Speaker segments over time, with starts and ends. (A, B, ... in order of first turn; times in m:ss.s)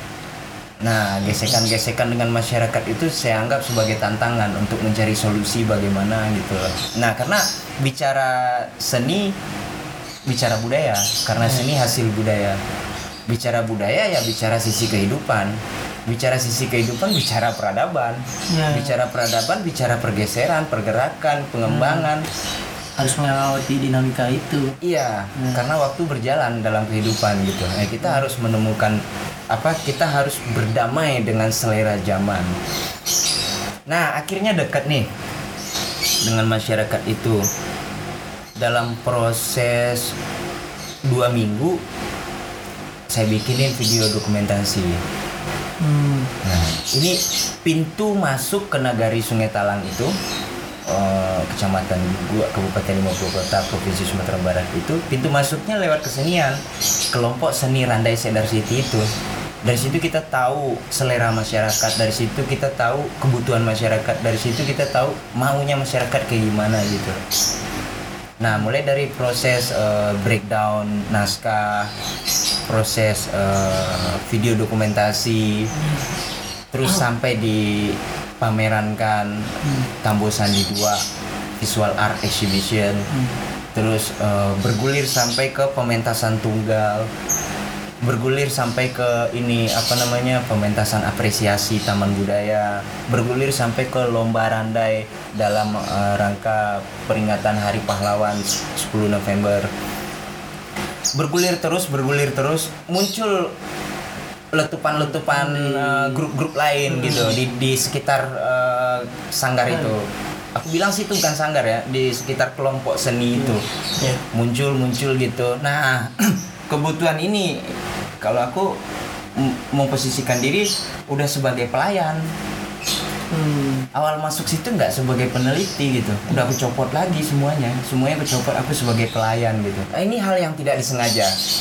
0:00.8-0:09.3 A
0:10.3-0:12.6 A
0:11.4-0:11.7 B
0:13.3-0:22.2 A
0:18.5-0:18.9 B
0:21.7-0:22.1 B
0:23.0-0:24.8 B
0:24.8-0:32.5 A
0:25.3-0:25.6 B
0:33.9-0:35.1 A
0:36.2-0:37.4 A
0:38.6-0:40.1 A
0:41.1-0:41.8 A
0:43.1-0:45.0 A
0:45.8-0:46.3 B
0:46.4-0:50.1 A
0:50.9-0:56.6 A
0:57.1-0:59.0 A
0:59.6-1:07.2 A
1:08.4-1:11.9 A
1:12.7-1:15.7 A
1:16.7-1:21.0 A
1:21.6-1:23.0 A
1:23.7-1:27.1 A
1:28.0-1:39.7 A
1:41.1-1:43.5 A
1:44.5-1:53.6 A
1:45.0-1:46.2 B
1:46.9-1:47.4 B
1:49.7-1:49.9 B
1:54.3-1:57.7 A
1:58.2-1:58.7 A
1:59.4-2:02.2 A
2:03.3-2:03.9 B
2:03.9-2:11.3 A